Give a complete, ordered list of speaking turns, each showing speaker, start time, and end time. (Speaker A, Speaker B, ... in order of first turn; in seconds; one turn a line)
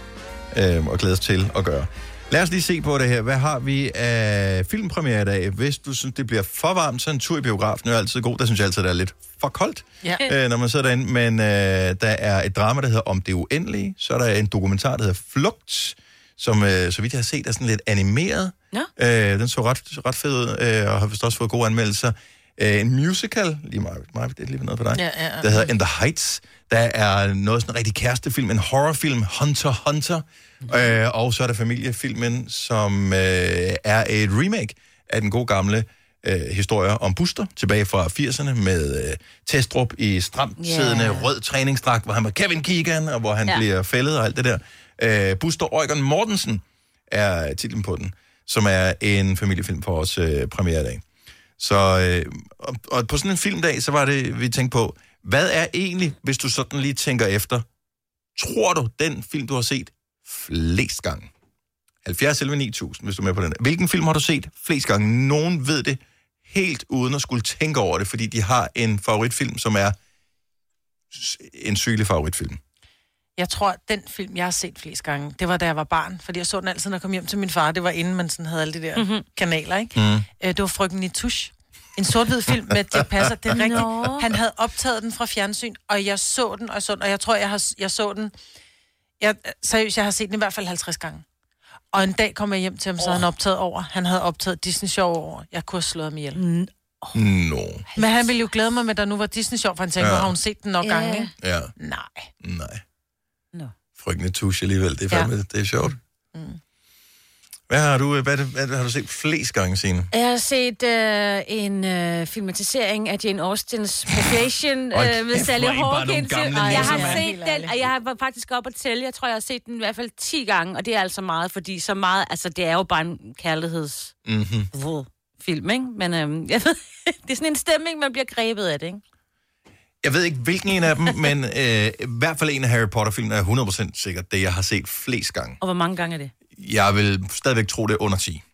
Speaker A: 0.5-51.0
Speaker B: 24.9-25.6
Speaker C: 40.6-41.3
Speaker A: 51.6-57.6
Speaker A: 58.4-61.3
Speaker A: 62.0-70.0
Speaker A: 71.1-72.6
Speaker B: 73.4-88.3
Speaker C: 79.0-79.2
Speaker A: 79.9-80.2
Speaker A: 82.7-83.8
Speaker C: 83.6-84.2
Speaker B: 89.2-91.2
Speaker B: 91.9-96.4
Speaker C: 96.3-97.2
Speaker A: 97.1-97.8
Speaker C: 97.9-98.2
Speaker B: 98.0-102.3
Speaker A: 100.0-100.3
Speaker C: 100.8-101.3
Speaker A: 101.4-101.7
Speaker A: 102.4-102.8
Speaker A: 104.0-106.0
Speaker B: 106.3-106.6
Speaker A: 107.7-110.1
Speaker C: 110.1-124.1
Speaker A: 114.1-114.4
Speaker A: 114.9-117.3
Speaker B: 116.5-117.8
Speaker A: 124.2-124.7
Speaker C: 124.7-129.0
Speaker A: 130.0-135.6
Speaker C: 135.6-136.3
Speaker A: 136.6-138.4